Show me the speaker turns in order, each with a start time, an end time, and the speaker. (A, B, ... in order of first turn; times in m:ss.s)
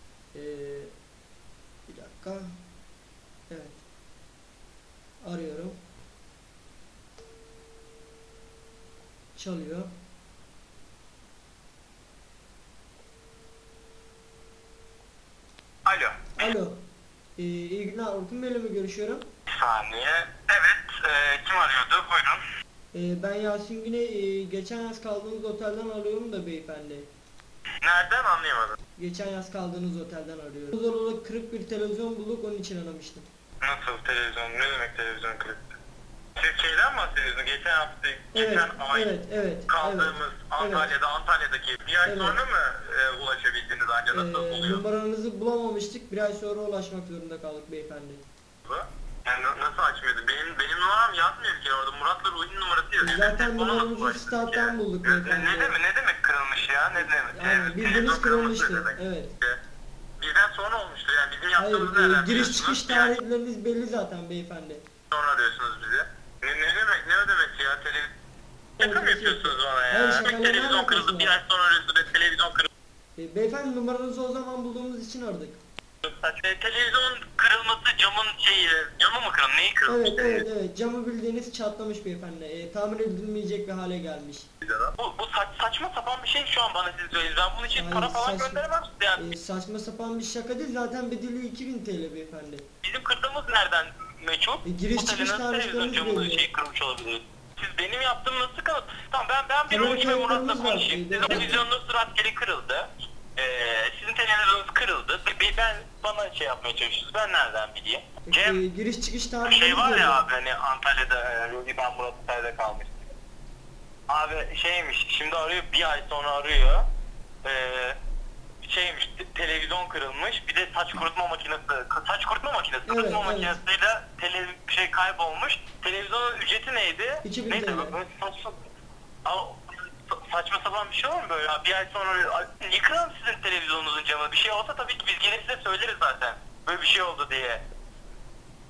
0:00.3-0:00.9 A
0:01.9-0:02.6 A
0:03.5-0:03.8 A
0:05.2-0:05.8 A
0:09.4-0:09.9 A
0:15.8-0:16.5 B
0:16.4-0:16.8 A
0:17.4-0:19.2 A
0:19.5-0:22.4 B
0:22.9-0:27.1 A
0:27.8-0:28.8 B
0:29.0-0:33.2 A
0:33.6-0:35.7 B
0:36.4-0:39.2 B
0:38.3-0:40.9 A
0:39.7-0:44.8 B
0:42.0-0:42.4 A
0:44.1-0:48.2 A
0:48.6-0:59.6 B
0:53.0-0:55.8 A
0:57.0-0:59.3 A
1:00.2-1:03.1 B
1:01.6-1:04.8 A
1:05.1-1:08.1 B
1:08.8-1:12.7 B
1:08.8-1:11.4 A
1:13.2-1:15.6 A
1:16.0-1:20.4 B
1:19.9-1:24.5 A
1:24.6-1:29.2 B
1:27.7-1:32.6 A
1:32.8-1:48.6 B
1:34.6-1:36.4 A
1:39.7-1:41.6 A
1:48.3-1:50.2 A
1:49.4-1:53.1 B
1:54.1-1:56.8 B
1:57.4-1:58.0 B
1:58.6-2:08.6 B
2:02.8-2:03.6 A
2:07.2-2:07.9 A
2:09.2-2:17.6 B